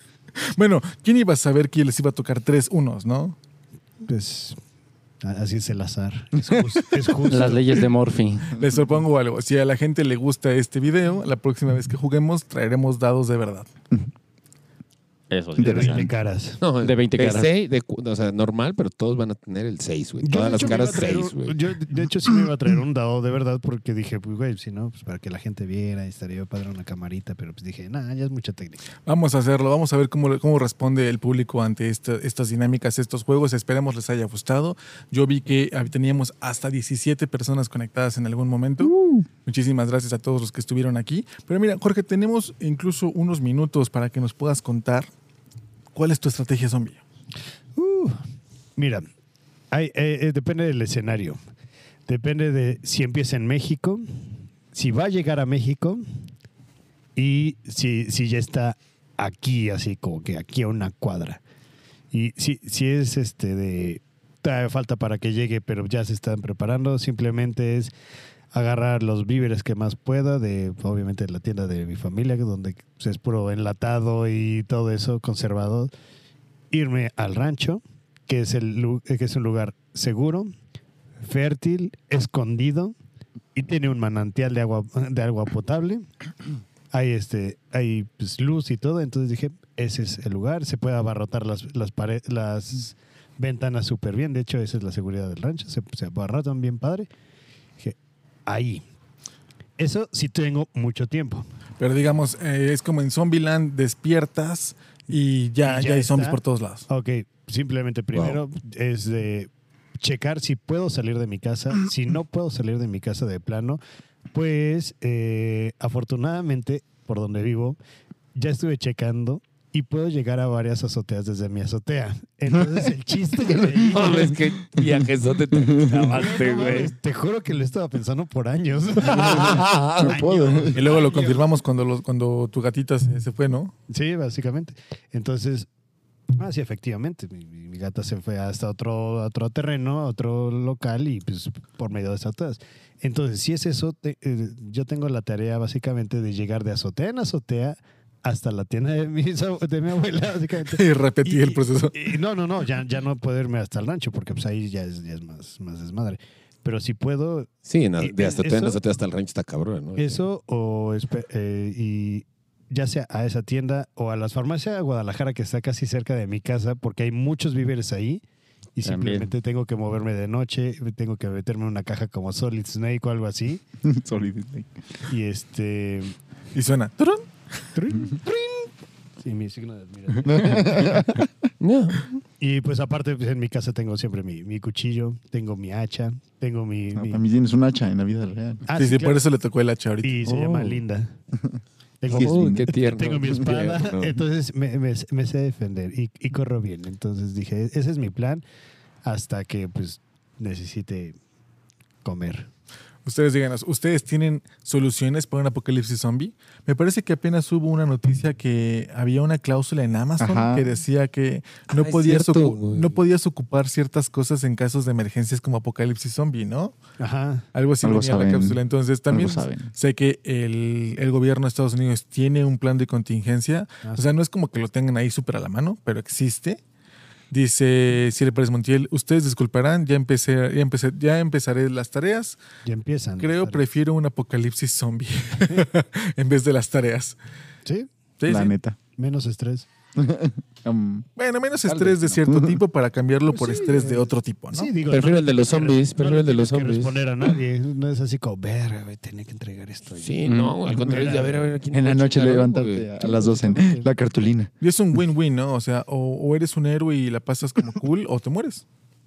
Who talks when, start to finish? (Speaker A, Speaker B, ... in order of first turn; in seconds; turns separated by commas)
Speaker A: 0.6-3.4, Speaker B: 4.0-4.6, Speaker B: 5.2-7.8, Speaker C: 7.3-8.6, Speaker A: 8.6-13.7, Speaker C: 15.3-16.1, Speaker D: 15.6-16.1, Speaker B: 15.6-16.6, Speaker E: 16.6-21.6, Speaker C: 16.8-17.5, Speaker B: 20.2-28.8, Speaker A: 29.1-38.9, Speaker D: 38.8-39.3, Speaker A: 39.5-45.1, Speaker A: 46.0-47.0, Speaker B: 47.8-48.2, Speaker B: 48.8-49.1, Speaker B: 49.7-51.4, Speaker B: 52.1-54.1, Speaker B: 54.7-56.0, Speaker B: 57.2-61.4, Speaker B: 62.1-67.9, Speaker B: 68.5-75.9, Speaker B: 76.7-80.5, Speaker B: 81.2-83.0, Speaker B: 83.5-86.1, Speaker B: 86.9-97.1, Speaker B: 97.8-98.8, Speaker B: 99.8-101.5, Speaker A: 101.8-106.9, Speaker B: 105.6-109.5, Speaker E: 108.1-108.4, Speaker B: 110.0-113.8, Speaker B: 114.3-117.8, Speaker B: 118.3-124.4, Speaker D: 123.5-124.2, Speaker E: 123.9-126.9, Speaker D: 125.5-126.1, Speaker B: 126.1-131.4, Speaker E: 129.0-130.6, Speaker D: 129.3-130.8, Speaker A: 130.8-133.7, Speaker B: 133.9-135.7, Speaker B: 136.3-158.8, Speaker A: 150.7-152.2, Speaker E: 157.7-160.2, Speaker B: 160.0-168.2, Speaker B: 168.8-173.6, Speaker C: 168.8-169.3, Speaker D: 173.8-174.7, Speaker B: 175.1-176.2, Speaker A: 176.6-177.3, Speaker B: 177.8-178.6, Speaker B: 179.2-181.0, Speaker D: 180.2-181.3, Speaker E: 181.6-182.1, Speaker B: 182.4-187.2, Speaker D: 186.9-188.7, Speaker B: 188.7-189.2, Speaker A: 188.7-190.2, Speaker B: 190.0-191.1, Speaker E: 190.2-190.8, Speaker B: 192.0-198.4, Speaker E: 192.1-194.2, Speaker D: 192.1-192.7, Speaker B: 199.1-201.2, Speaker B: 202.0-202.5, Speaker A: 203.1-216.8, Speaker D: 210.2-210.7, Speaker E: 211.7-213.0, Speaker B: 217.0-217.5, Speaker A: 217.5-226.6, Speaker D: 217.8-219.7, Speaker B: 223.8-224.1, Speaker A: 227.3-232.4, Speaker B: 232.7-233.6, Speaker A: 233.2-237.2, Speaker A: 238.2-238.6, Speaker D: 238.3-238.8, Speaker B: 239.0-239.7, Speaker D: 240.0-241.1, Speaker A: 241.2-244.7, Speaker D: 241.7-242.6, Speaker B: 243.3-251.5, Speaker E: 244.9-247.3, Speaker E: 249.9-252.9, Speaker C: 250.3-250.6, Speaker D: 251.7-254.5, Speaker B: 253.0-253.9, Speaker A: 254.6-258.6